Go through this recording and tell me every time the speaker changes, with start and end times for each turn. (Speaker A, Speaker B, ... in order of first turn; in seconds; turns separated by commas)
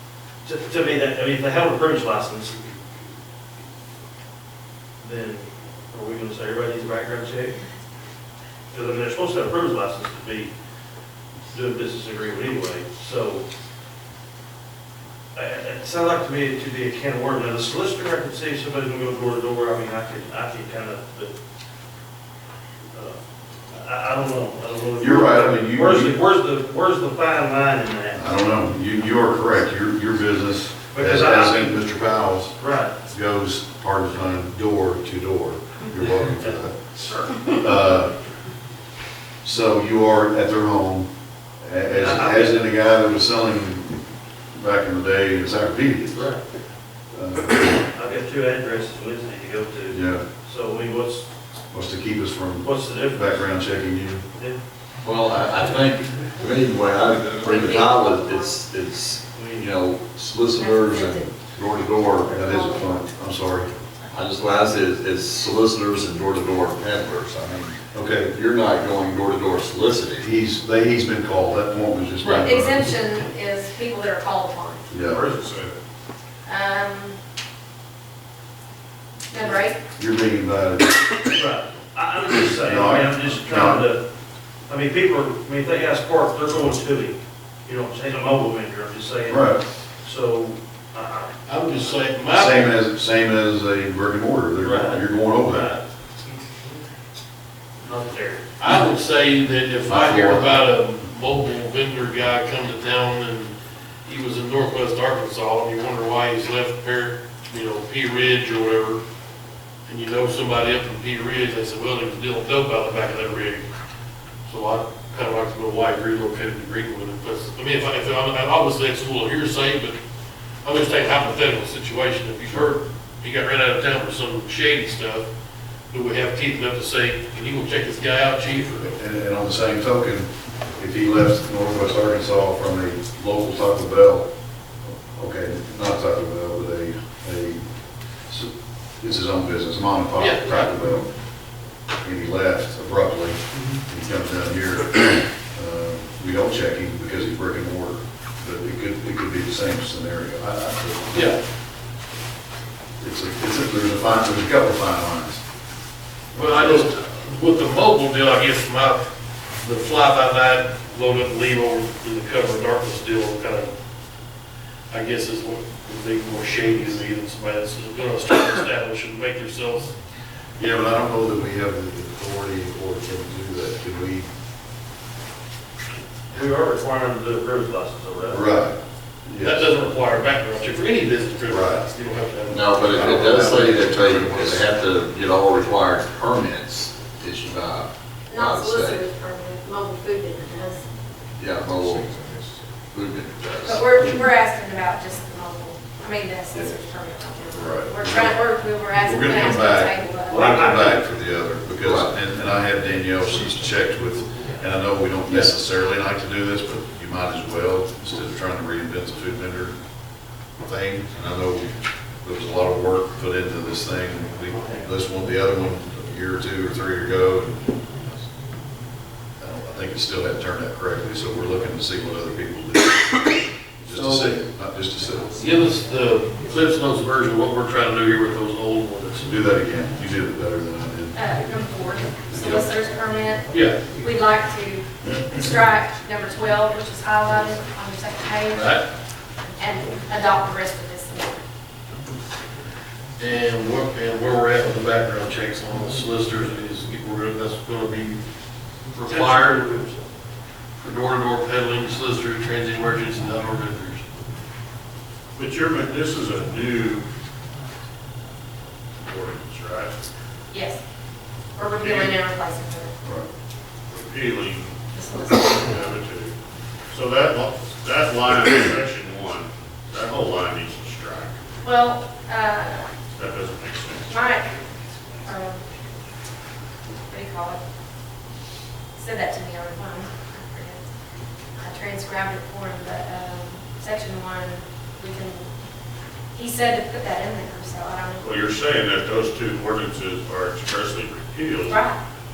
Speaker A: 0.4-2.8, Speaker A: 5.0-7.6, Speaker A: 8.7-10.5, Speaker A: 11.5-13.5, Speaker A: 15.3-21.4, Speaker A: 22.9-23.2, Speaker A: 23.7-28.2, Speaker B: 25.0-26.2, Speaker B: 28.1-32.5, Speaker A: 30.9-31.8, Speaker A: 32.6-33.0, Speaker B: 33.1-36.8, Speaker A: 37.0-37.3, Speaker B: 37.5-38.1, Speaker B: 39.4-41.1, Speaker B: 41.6-44.0, Speaker A: 41.9-42.6, Speaker B: 44.5-46.3, Speaker B: 47.1-47.8, Speaker A: 47.9-51.3, Speaker B: 49.9-50.2, Speaker B: 51.7-54.2, Speaker A: 52.6-53.5, Speaker C: 55.0-62.4, Speaker D: 57.4-58.6, Speaker A: 59.3-59.7, Speaker D: 60.5-61.4, Speaker D: 62.2-63.1, Speaker B: 62.3-63.7, Speaker C: 64.1-67.8, Speaker B: 67.9-68.3, Speaker C: 68.3-70.3, Speaker B: 70.2-72.9, Speaker D: 72.4-74.9, Speaker B: 74.9-75.2, Speaker E: 75.2-75.8, Speaker D: 76.5-77.2, Speaker D: 79.3-79.8, Speaker B: 80.0-81.0, Speaker A: 81.3-84.0, Speaker B: 82.6-83.9, Speaker A: 84.7-91.3, Speaker B: 89.3-89.6, Speaker F: 91.5-92.8, Speaker B: 92.3-95.7, Speaker A: 94.6-95.8, Speaker A: 97.9-98.5, Speaker F: 98.6-103.5, Speaker B: 99.9-100.6, Speaker F: 104.0-109.0, Speaker F: 109.9-113.7, Speaker F: 114.5-120.0, Speaker F: 120.6-125.3, Speaker F: 125.9-128.9, Speaker B: 129.0-134.3, Speaker B: 134.9-137.6, Speaker B: 138.3-141.1, Speaker F: 140.2-140.8, Speaker B: 142.0-151.3, Speaker F: 151.1-151.4, Speaker B: 153.0-155.4, Speaker B: 156.3-156.9, Speaker F: 156.3-159.1, Speaker F: 159.6-163.7, Speaker F: 164.9-169.9, Speaker B: 170.6-174.3, Speaker A: 176.3-178.5, Speaker B: 178.3-179.9, Speaker F: 179.4-184.3, Speaker B: 181.5-181.8, Speaker C: 182.5-189.1, Speaker B: 182.9-184.7, Speaker D: 188.3-190.8, Speaker C: 191.4-192.2, Speaker C: 192.9-194.0, Speaker D: 193.6-200.6, Speaker B: 197.5-209.8, Speaker A: 200.3-201.1, Speaker C: 201.8-202.2, Speaker B: 210.6-217.6, Speaker B: 219.4-225.4, Speaker F: 223.9-224.4, Speaker F: 225.4-229.3, Speaker B: 229.2-231.2, Speaker D: 231.1-238.8, Speaker B: 232.3-232.7, Speaker E: 233.5-234.0, Speaker F: 233.5-233.8, Speaker F: 238.5-238.9, Speaker D: 239.6-241.4, Speaker F: 243.2-248.2, Speaker F: 248.9-249.7, Speaker A: 249.1-250.1, Speaker F: 250.8-254.1, Speaker E: 255.3-257.1, Speaker E: 259.0-260.0, Speaker D: 260.5-260.8, Speaker D: 261.6-263.0, Speaker E: 261.8-262.2, Speaker E: 263.9-266.4, Speaker D: 264.9-265.8, Speaker E: 266.9-271.4, Speaker D: 271.6-272.9, Speaker E: 273.1-274.2, Speaker D: 274.1-274.6, Speaker D: 275.2-275.7, Speaker D: 277.1-277.6, Speaker D: 278.9-280.9, Speaker D: 281.6-285.5, Speaker D: 286.3-288.4, Speaker E: 288.2-291.8, Speaker D: 291.6-292.0